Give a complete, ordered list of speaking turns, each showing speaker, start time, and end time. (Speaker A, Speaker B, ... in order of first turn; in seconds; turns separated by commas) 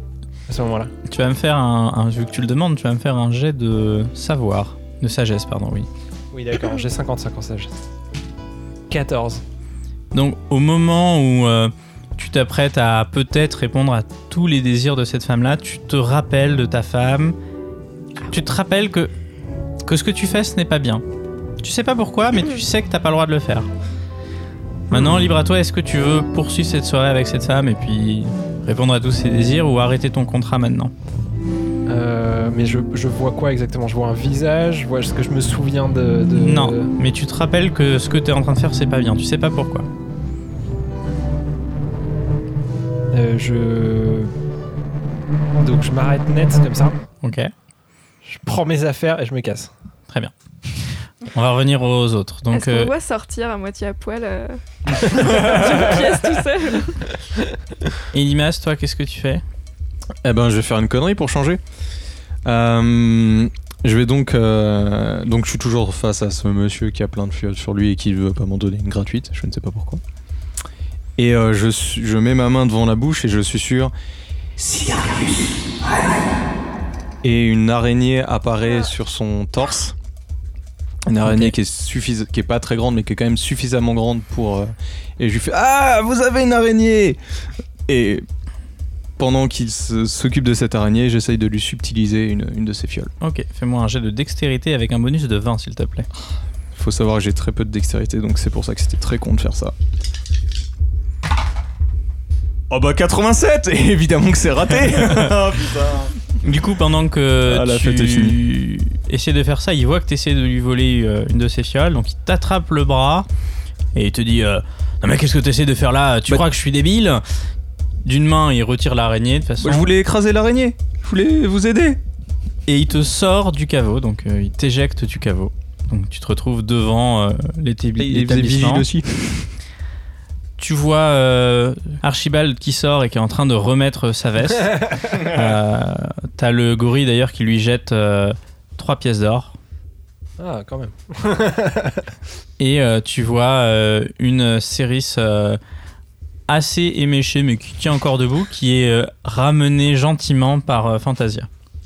Speaker A: 0.5-0.9, Speaker B: 1.1-5.9, Speaker A: 6.3-7.7, Speaker A: 8.9-9.4, Speaker B: 10.1-17.4, Speaker B: 18.3-19.1, Speaker B: 19.8-21.0, Speaker B: 21.6-23.7, Speaker B: 24.9-30.9, Speaker A: 31.9-36.9, Speaker B: 36.3-39.9, Speaker A: 43.1-44.3, Speaker A: 45.6-47.0, Speaker B: 47.2-47.5, Speaker A: 48.2-49.7, Speaker B: 51.3-52.9, Speaker C: 52.5-57.1, Speaker B: 58.1-59.4, Speaker D: 60.2-61.6, Speaker D: 62.4-70.0, Speaker D: 71.2-73.9, Speaker D: 74.6-75.5, Speaker D: 77.2-79.9, Speaker D: 81.1-87.2, Speaker B: 81.2-81.5, Speaker D: 87.9-88.2, Speaker D: 89.2-93.1, Speaker B: 93.2-96.1, Speaker D: 96.7-99.7, Speaker D: 102.7-106.1, Speaker B: 106.4-113.3, Speaker D: 107.4-108.4, Speaker B: 113.9-117.2, Speaker B: 118.0-119.9, Speaker D: 119.6-122.0, Speaker B: 122.7-128.9, Speaker D: 128.0-129.5, Speaker B: 130.6-139.6, Speaker A: 140.4-142.1, Speaker B: 142.6-145.6, Speaker B: 146.5-151.5